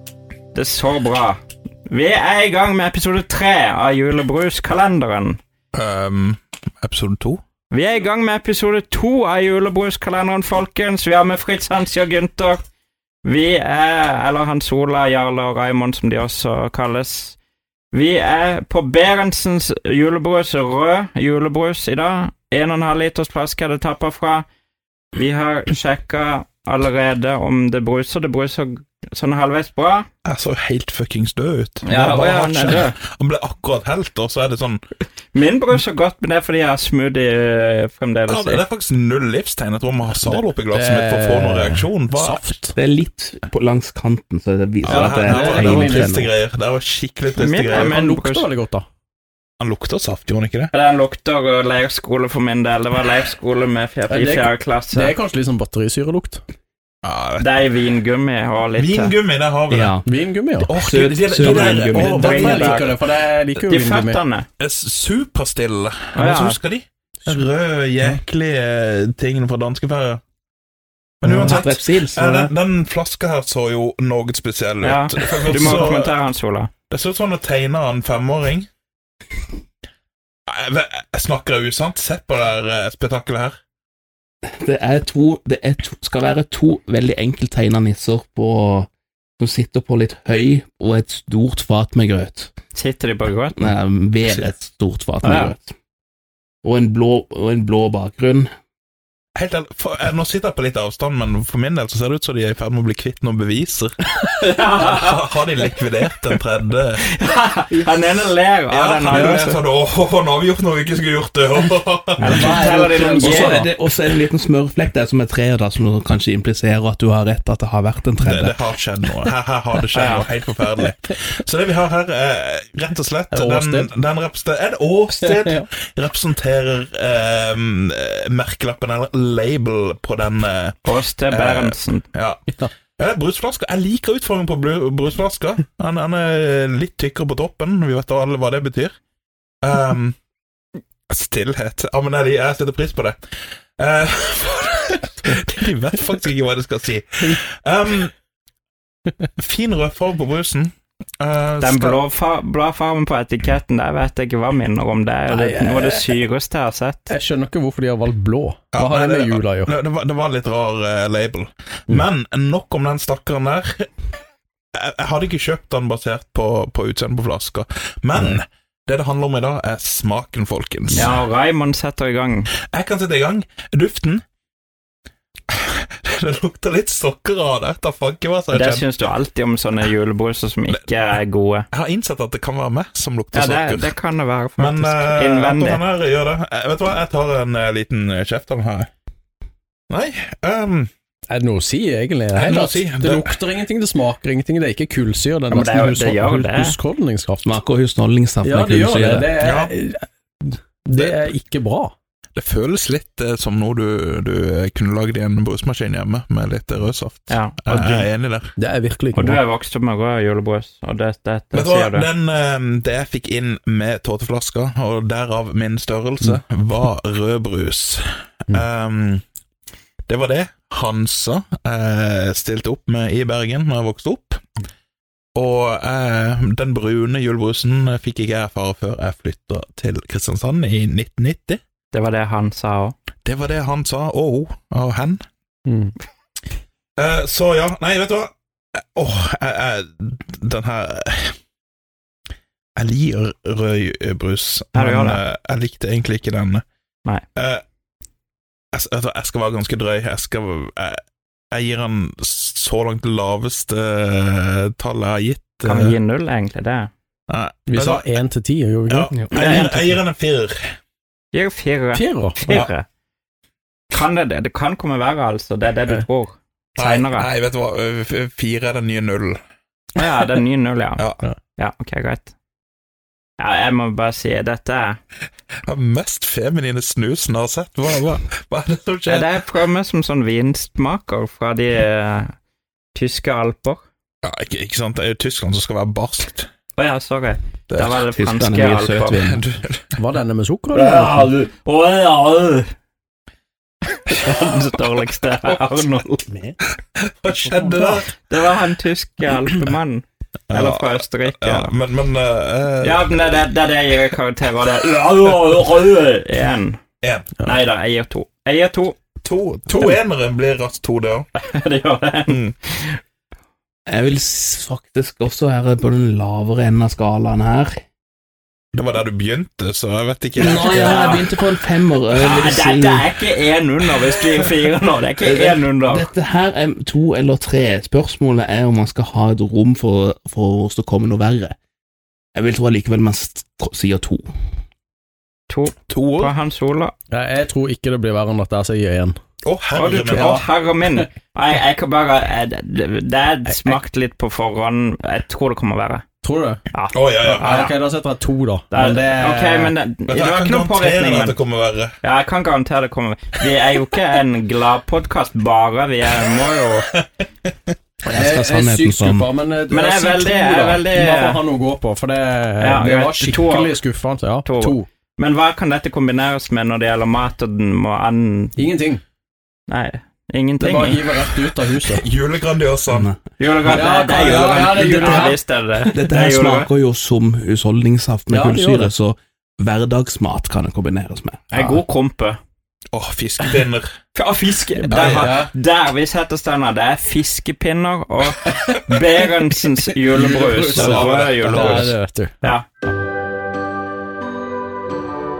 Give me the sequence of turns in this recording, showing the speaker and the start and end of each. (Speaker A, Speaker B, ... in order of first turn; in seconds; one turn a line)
Speaker A: 0.5-5.4
Speaker B: 5.7-7.4
Speaker A: 7.7-12.6
Speaker A: 13.2-17.4
Speaker A: 17.9-24.4
Speaker A: 25.1-30.1
Speaker B: 30.2-34.8
Speaker A: 31.8-33.0
Speaker A: 35.3-38.6
Speaker B: 38.3-42.5
Speaker C: 40.2-42.8
Speaker D: 42.8-46.3
Speaker B: 44.8-48.0
Speaker C: 44.9-46.2
Speaker A: 47.3-48.5
Speaker C: 47.7-48.9
Speaker B: 49.6-50.7
Speaker A: 50.7-55.1
Speaker C: 54.1-56.4
Speaker B: 57.0-57.6
Speaker A: 57.4-59.1
Speaker B: 58.8-59.9
Speaker D: 59.7-60.1
Speaker C: 60.0-60.7
Speaker B: 60.6-62.9
Speaker D: 60.7-62.1
Speaker C: 61.4-64.2
Speaker A: 62.0-63.0
Speaker A: 63.6-64.5
Speaker B: 64.6-70.2
Speaker A: 66.1-66.6
Speaker B: 71.2-76.2
Speaker D: 71.2-72.5
Speaker A: 74.8-76.7
Speaker B: 76.9-78.7
Speaker B: 80.5-83.5
Speaker D: 84.5-92.5
Speaker A: 92.7-93.7
Speaker D: 93.6-95.7
Speaker A: 95.2-95.5
Speaker D: 96.6-98.5
Speaker B: 99.3-104.0
Speaker A: 104.2-105.2
Speaker B: 104.8-107.0
Speaker A: 107.1-109.6
Speaker B: 108.7-112.6
Speaker C: 109.1-109.4
Speaker A: 112.2-113.6
Speaker D: 112.2-118.6
Speaker C: 112.3-113.7
Speaker B: 118.2-138.9
Speaker A: 119.9-120.2
Speaker C: 123.3-123.9
Speaker C: 125.2-125.6
Speaker A: 130.8-132.1
Speaker B: 139.6-140.2
Speaker B: 141.1-143.2
Speaker B: 143.8-148.1
Speaker B: 149.4-152.0
Speaker A: 151.6-157.1
Speaker C: 155.3-156.1
Speaker C: 157.1-159.7
Speaker B: 158.7-163.9
Speaker B: 164.7-171.1
Speaker A: 170.9-172.5
Speaker B: 172.7-174.2
Speaker B: 175.5-178.8
Speaker A: 178.5-181.7
Speaker B: 181.7-183.9
Speaker A: 183.3-185.8
Speaker B: 184.6-188.9
Speaker B: 189.9-190.9
Speaker C: 191.3-197.6
Speaker B: 192.3-193.4
Speaker A: 195.5-196.8
Speaker D: 197.4-199.3
Speaker C: 198.4-201.9
Speaker B: 199.4-199.7
Speaker B: 202.3-208.5
Speaker A: 207.3-208.1
Speaker C: 208.6-209.4
Speaker A: 209.1-212.1
Speaker B: 211.5-219.2
Speaker B: 220.1-224.4
Speaker B: 225.3-231.6
Speaker A: 231.9-232.9
Speaker B: 233.2-235.2
Speaker C: 235.7-235.9
Speaker B: 237.0-238.3
Speaker B: 238.9-241.3
Speaker B: 242.8-246.6
Speaker A: 244.7-245.2
Speaker B: 247.3-247.6
Speaker B: 248.7-251.0
Speaker B: 251.5-255.9
Speaker A: 255.6-256.9
Speaker B: 257.3-258.1
Speaker C: 257.7-259.1
Speaker B: 258.9-260.6
Speaker A: 259.3-259.9
Speaker A: 261.3-262.9
Speaker C: 261.9-262.6
Speaker A: 263.9-267.3
Speaker B: 266.8-269.4
Speaker A: 269.9-271.0
Speaker B: 271.0-271.2
Speaker A: 271.6-272.3
Speaker A: 273.4-275.0
Speaker B: 275.6-279.3
Speaker A: 279.1-282.3
Speaker A: 282.9-283.8
Speaker B: 284.2-286.5
Speaker A: 286.8-289.2
Speaker B: 287.7-288.0
Speaker D: 288.1-289.5
Speaker B: 289.2-289.9
Speaker C: 290.0-291.2
Speaker A: 290.7-292.7
Speaker A: 294.1-296.2
Speaker D: 296.2-296.6
Speaker B: 297.0-298.1
Speaker A: 298.2-301.7
Speaker B: 300.5-303.1
Speaker A: 302.8-306.8
Speaker B: 307.0-307.4
Speaker A: 307.4-309.0
Speaker B: 309.2-311.3
Speaker C: 309.7-310.0
Speaker A: 311.3-313.0
Speaker B: 312.3-312.5
Speaker D: 313.9-317.8
Speaker B: 318.7-320.8
Speaker D: 320.4-323.1
Speaker C: 320.5-321.2
Speaker A: 320.6-321.2
Speaker A: 322.1-326.1
Speaker D: 325.2-331.5
Speaker D: 332.3-334.2
Speaker A: 335.5-336.9
Speaker B: 335.9-336.3
Speaker C: 337.1-339.1
Speaker B: 339.4-340.4
Speaker A: 339.7-346.0
Speaker C: 339.9-340.4
Speaker C: 346.2-346.6
Speaker A: 346.7-347.8
Speaker B: 346.9-347.7
Speaker C: 347.3-349.7
Speaker A: 348.7-351.4
Speaker B: 350.1-351.9
Speaker A: 352.0-356.9
Speaker D: 358.1-359.3
Speaker C: 358.1-364.9
Speaker A: 359.7-361.4
Speaker A: 362.6-363.7
Speaker A: 364.4-368.6
Speaker C: 368.6-369.0
Speaker A: 369.7-371.1
Speaker C: 370.6-372.1
Speaker B: 371.8-373.1
Speaker D: 372.9-373.2
Speaker A: 373.4-376.7
Speaker C: 373.6-375.4
Speaker B: 374.3-375.1
Speaker D: 375.9-381.4
Speaker C: 378.3-378.9
Speaker A: 381.5-382.4
Speaker C: 381.5-381.8
Speaker B: 382.9-383.9
Speaker A: 384.1-392.6
Speaker C: 384.8-385.5
Speaker B: 384.9-385.4
Speaker C: 390.1-392.5
Speaker B: 390.6-391.9